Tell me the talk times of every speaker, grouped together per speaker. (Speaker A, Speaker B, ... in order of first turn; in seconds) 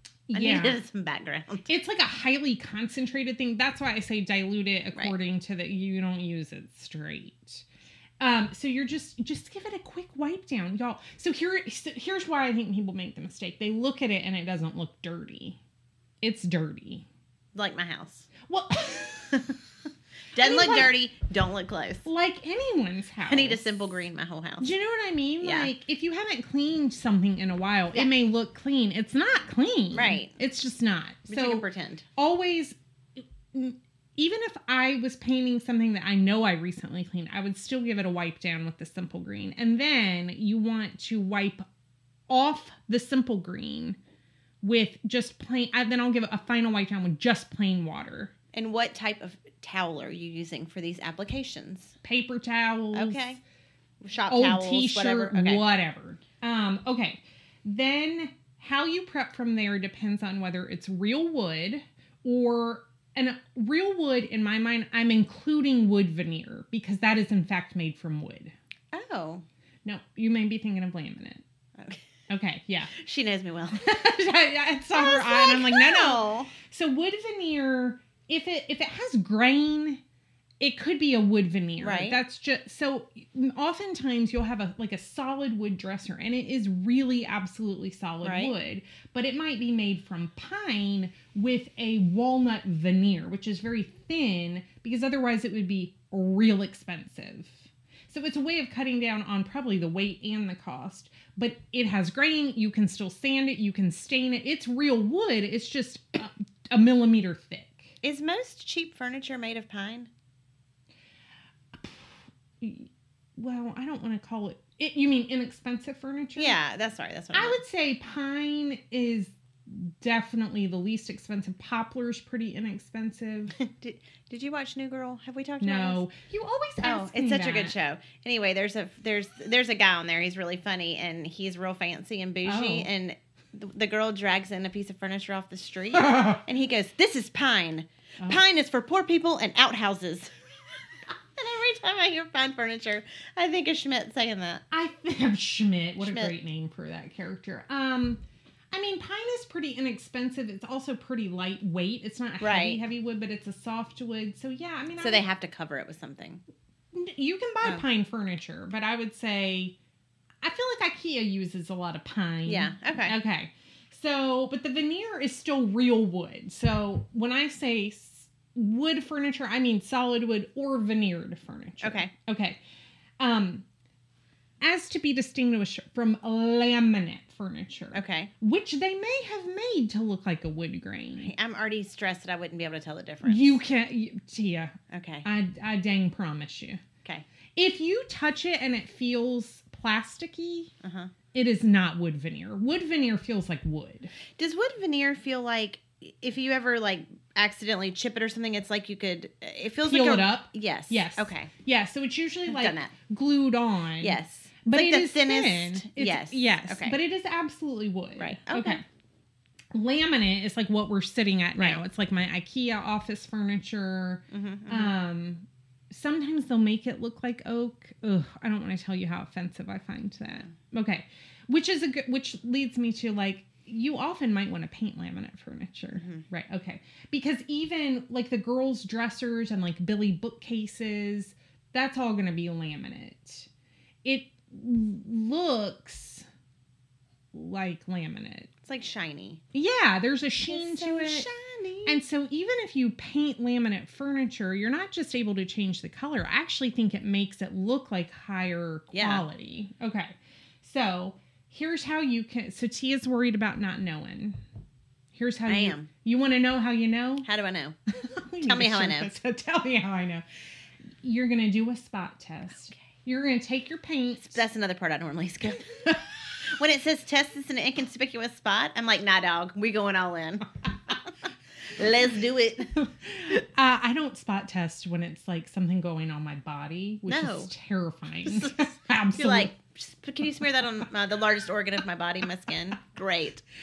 Speaker A: 0.3-0.8, 1.7-7.7, 8.2-15.6, 16.2-17.1, 18.5-19.4, 20.4-20.9, 22.1-23.7, 24.6-31.6, 32.2-41.7, 42.3-44.0, 44.6-48.3, 52.0-53.3, 54.3-68.5, 69.8-71.4, 72.3-72.9, 73.8-80.0, 80.6-107.9, 111.8-116.6, 117.3-123.6, 125.6-127.8, 132.4-132.9, 135.9-136.4, 144.7-155.3, 156.9-159.8, 160.4-172.6, 173.2-173.7, 174.6-181.3, 183.2-186.8, 187.6-190.7, 191.3-194.1, 199.8-208.8, 209.7-233.5, 234.0-236.3, 237.3-238.5, 239.5-241.3, 241.9-254.4, 255.1-257.3, 257.9-260.2, 261.0-264.4, 272.7-279.5
Speaker B: 0.3-1.7, 17.6-18.3, 20.3-22.1, 23.3-24.8, 25.4-25.7, 29.9-30.3, 31.3-32.1, 48.5-51.9, 52.9-53.4, 54.0-55.6, 68.9-69.5, 71.8-72.0, 72.9-74.0, 74.9-76.5, 81.8-82.2, 88.2-88.5, 108.0-110.1, 116.4-117.6, 123.6-126.0, 126.8-140.3, 141.3-144.6, 146.0-146.3, 152.4-152.8, 155.0-156.4, 162.5-163.2, 171.8-172.1, 177.9-178.3, 181.2-183.6, 184.9-185.3, 190.8-191.1, 194.3-201.5, 202.5-202.9, 204.0-207.0, 208.2-208.8, 211.6-211.8, 214.3-214.9, 225.9-226.2, 238.6-239.4, 240.5-242.0, 248.9-249.2, 255.5-255.9, 257.2-257.8, 258.4-259.1, 264.3-265.9, 266.5-271.1, 271.7-272.7, 277.1-277.5, 278.2-283.4